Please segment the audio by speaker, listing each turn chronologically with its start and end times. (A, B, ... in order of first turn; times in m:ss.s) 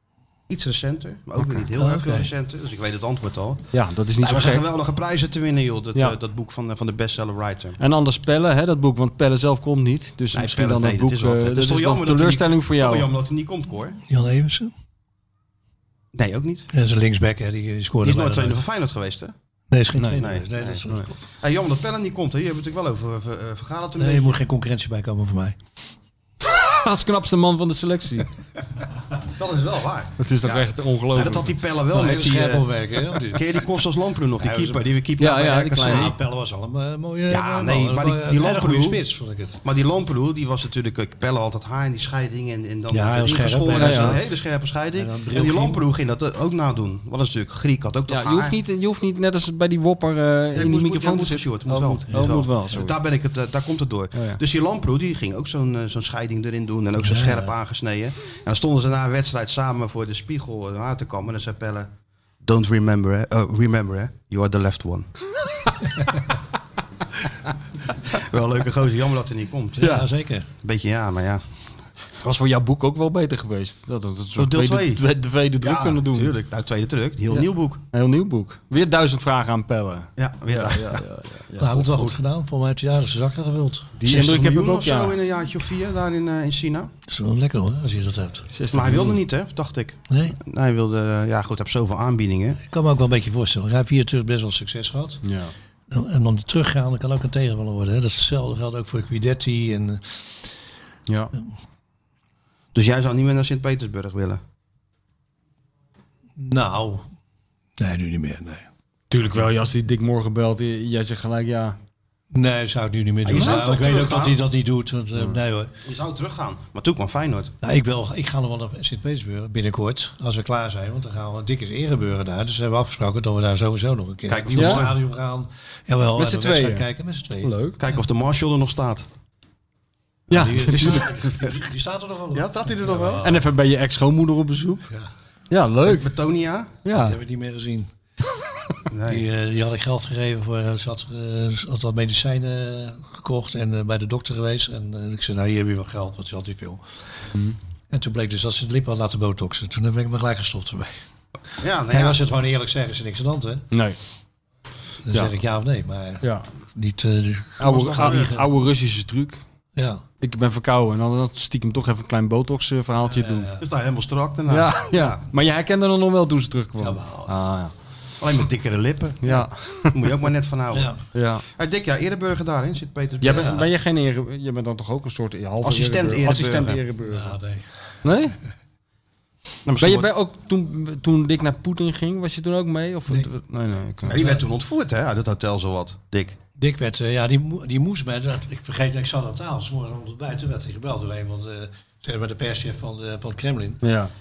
0:00.5-0:03.7 A
0:01.7-0:02.3 B
0:03.7-0:04.6 C
0:04.2-0:07.8 A
0:07.8-0:13.1 C
0:10.3-0:14.0 A
0:14.0-0:14.7 B
0:16.1-0:16.7 A
0:16.7-0:18.6 B
0:18.0-0:19.3 A
0:19.7-0:21.1 B
0:20.2-0:20.9 A
0:21.4-0:24.4 A
0:24.0-0:25.6 B
0:26.4-0:28.3 C
0:29.4-0:32.7 A
0:30.2-0:31.5 C
0:31.9-0:33.4 B
0:33.3-0:36.2 A
0:34.4-0:34.8 B
0:35.2-0:36.1 C
0:35.8-0:39.6 B
0:37.3-0:39.0 A
0:39.6-0:48.6 A
0:42.9-0:44.2 B
0:43.8-0:44.2 C
0:44.9-0:45.8 B
0:48.1-0:52.9 C
0:50.6-1:01.9 A
0:54.1-0:54.4 C
0:57.0-0:57.5 B
1:02.4-1:05.1 A
1:08.1-1:09.9 A
1:09.8-1:10.5 B
1:09.8-1:10.1 C
1:10.6-1:11.4 A
1:12.2-1:16.3 C
1:14.4-1:15.0 A
1:15.6-1:17.8 A
1:17.3-1:22.1 C
1:20.2-1:21.0 A
1:21.6-1:23.9 B
1:24.0-1:25.2 C
1:24.1-1:26.9 A
1:27.1-1:28.5 B
1:28.5-1:29.2 C
1:28.7-1:32.6 A
1:30.1-1:30.4 B
1:32.7-1:35.2 B
1:35.2-1:35.5 C
1:35.9-1:40.5 B
1:41.1-1:41.3 C
1:42.8-1:44.4 A
1:46.4-1:47.1 B
1:47.8-1:48.7 B
1:49.1-1:51.8 C
1:52.3-1:55.7 B
1:53.2-1:54.4 A
1:55.2-1:55.4 C
1:55.8-1:57.5 A
1:57.6-2:07.5 B
2:04.3-2:05.0 A
2:04.6-2:04.8 C
2:06.2-2:06.9 C
2:07.4-2:07.8 C
2:07.8-2:09.1 A
2:10.3-2:11.1 C
2:10.3-2:13.5 B
2:10.4-2:11.6 A
2:12.3-2:13.2 A
2:13.2-2:14.9 C
2:15.5-2:16.1 C
2:15.8-2:16.7 A
2:16.8-2:17.2 C
2:16.9-2:17.9 B
2:18.9-2:19.2 A
2:19.1-2:26.8 B
2:27.9-2:30.9 B
2:31.6-2:32.2 A
2:31.9-2:33.6 B
2:33.7-2:34.0 C
2:35.0-2:38.4 B
2:37.6-2:39.4 C
2:37.6-2:38.4 A
2:39.8-2:40.0 B
2:40.2-2:43.5 C
2:43.0-2:43.7 B
2:43.6-2:45.2 A
2:44.5-2:47.7 C
2:46.8-2:47.3 B
2:48.2-2:51.0 A
2:49.2-2:50.1 C
2:50.7-2:51.0 B
2:51.1-2:51.4 C
2:51.6-2:53.7 A
2:53.2-2:57.4 C
2:53.3-2:53.6 B
2:55.6-2:56.8 A
2:57.0-2:57.8 B
2:58.0-2:58.4 C
2:59.7-3:00.1 A
2:59.8-3:04.2 C
3:04.1-3:06.4 A
3:04.1-3:04.4 B
3:06.6-3:13.8 B
3:13.8-3:14.1 C